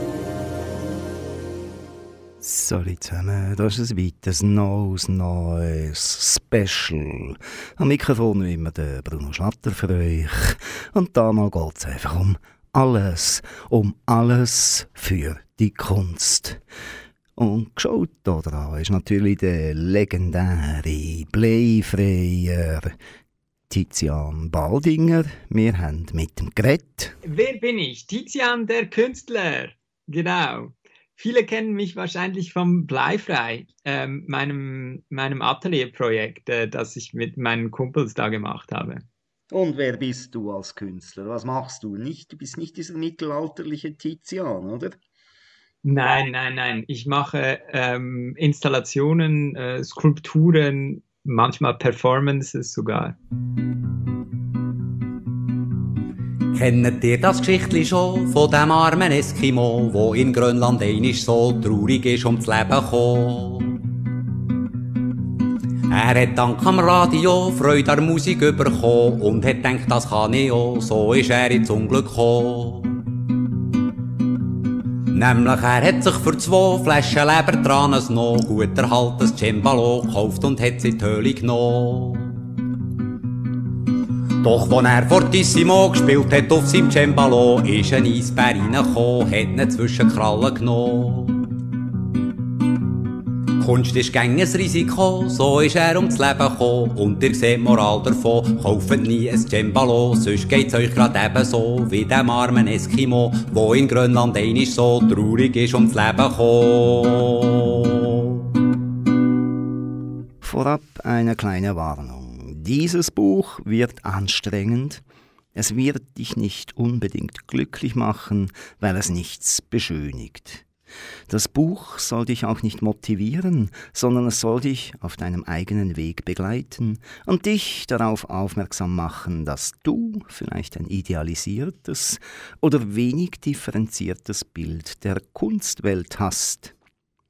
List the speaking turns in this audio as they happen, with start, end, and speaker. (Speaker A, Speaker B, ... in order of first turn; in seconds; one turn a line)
Speaker A: 2.4-16.6
Speaker A: 17.4-22.9
Speaker A: 23.7-27.1
Speaker B: 27.2-39.0
Speaker A: 39.5-45.0
Speaker B: 45.8-53.1
Speaker C: 56.5-63.8
Speaker C: 65.9-73.0
Speaker C: 75.1-82.4
Speaker C: 84.4-91.5
Speaker C: 93.6-108.4
Speaker A: 110.4-115.0
Speaker A: 115.5-120.6
Speaker A: 121.3-136.7